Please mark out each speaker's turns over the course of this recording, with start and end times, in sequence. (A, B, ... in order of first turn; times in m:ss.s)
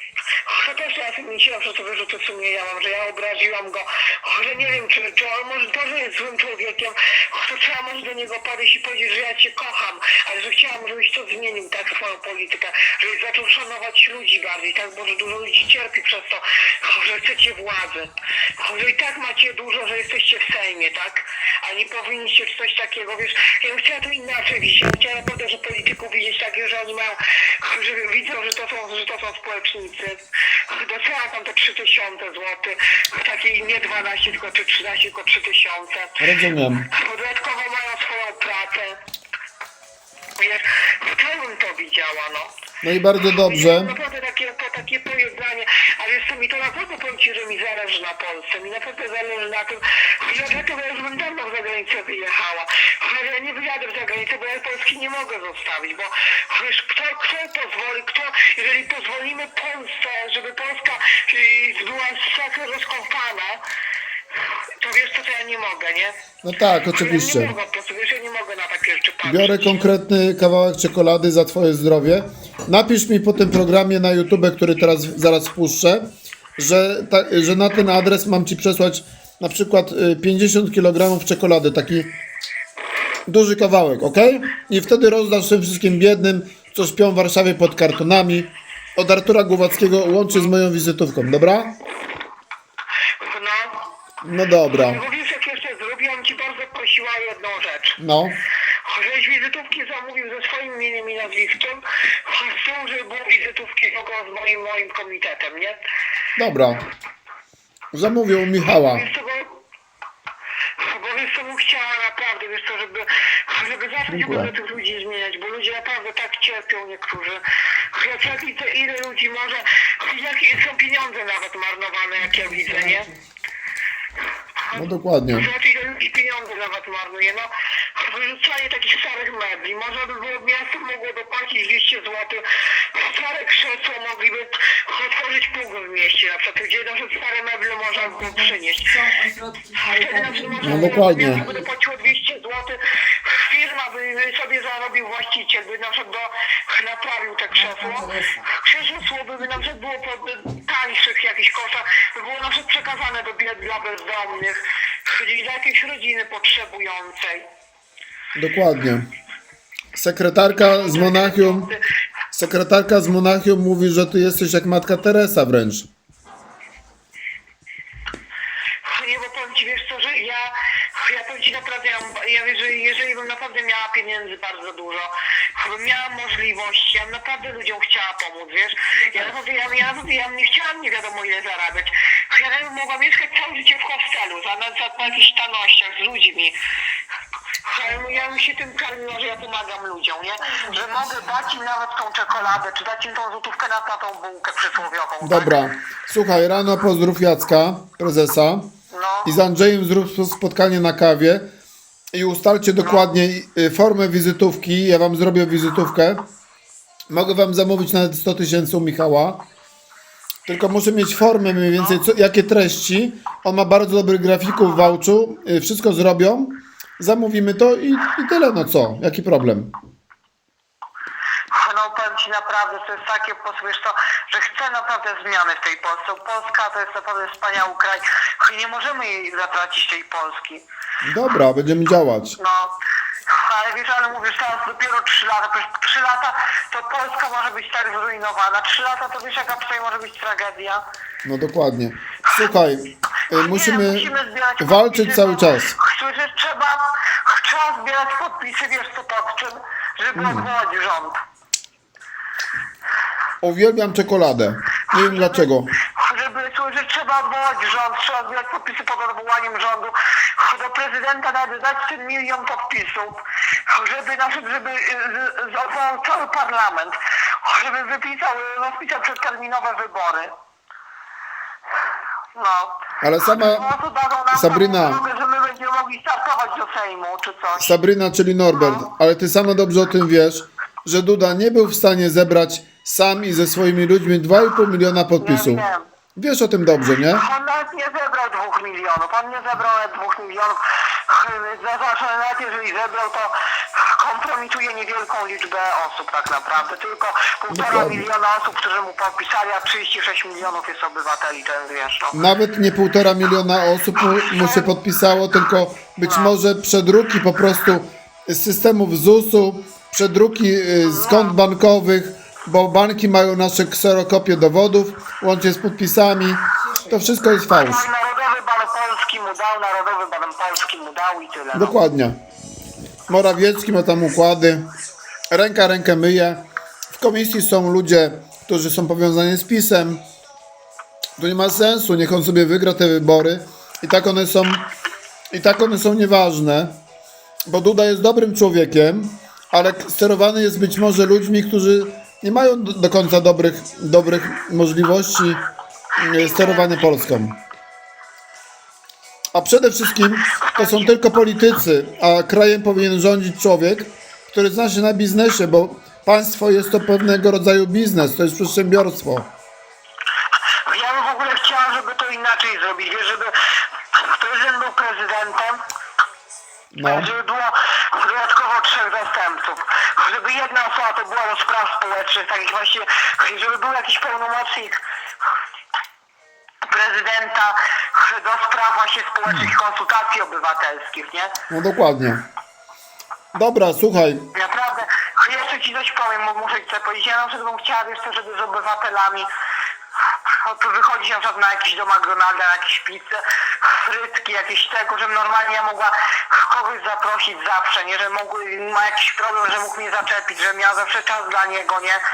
0:00.4-0:36.2 A
0:36.2-0:36.9 B
0:36.9-0:39.0 A
0:40.4-0:42.5 A
0:42.8-0:43.9 B
0:43.4-1:03.6 A
1:04.8-1:06.2 A
1:06.4-1:07.6 B
1:06.9-1:09.9 A
1:09.2-1:22.1 B
1:23.3-1:31.8 B
1:33.2-1:33.9 A
1:34.2-1:35.0 B
1:34.7-1:38.0 A
1:38.0-1:38.4 B
1:38.8-1:45.8 A
1:46.4-1:46.8 B
1:47.9-1:49.1 B
1:48.7-1:49.6 A
1:50.8-2:03.1 A
1:54.1-1:54.5 B
2:04.7-2:19.0 A
2:04.7-2:05.5 B
2:19.0-2:21.3 C
2:19.8-2:37.5 A
2:20.6-2:21.4 B
2:38.4-2:39.1 B
2:39.9-2:41.7 B
2:40.6-2:41.8 A
2:42.3-2:45.9 B
2:48.8-3:06.6 A
3:07.7-3:15.6 A
3:15.2-3:18.7 B
3:18.9-3:19.4 A
3:19.2-3:21.5 B
3:22.1-3:26.3 B
3:22.8-3:23.1 A
3:27.1-3:29.4 B
3:30.5-3:39.7 B
3:41.5-3:50.6 A
3:51.0-3:52.4 B
3:52.4-3:52.8 A
3:53.3-4:00.8 A
4:01.2-4:05.8 B
4:03.3-4:11.2 A
4:10.2-4:10.5 B
4:13.4-4:15.7 B
4:14.9-4:30.3 A
4:32.3-4:37.8 A
4:33.0-4:33.7 B
4:34.3-4:35.0 B
4:37.6-4:45.6 B
4:38.5-4:38.9 A
4:45.2-4:45.9 A
4:46.2-4:47.2 B
4:47.1-5:02.2 A
4:57.5-4:58.0 B
5:02.1-5:17.8 B
5:04.2-5:04.7 A
5:06.0-5:06.4 A
5:10.8-5:11.4 A
5:17.5-5:21.8 A
5:21.5-5:22.2 B
5:23.1-5:24.7 B
5:25.3-5:30.0 B
5:31.2-5:34.7 B
5:35.3-5:36.8 B
5:37.5-5:45.4 B
5:46.0-5:47.4 B
5:46.2-5:46.8 A
5:49.3-5:59.3 B
5:50.4-5:51.0 A
6:00.7-6:03.3 A
6:03.9-6:05.6 A
6:06.7-6:07.1 B
6:06.9-6:14.8 A
6:16.6-6:21.4 A
6:21.5-6:22.2 B
6:23.3-6:24.3 B
6:24.3-6:29.3 A
6:30.3-6:42.0 A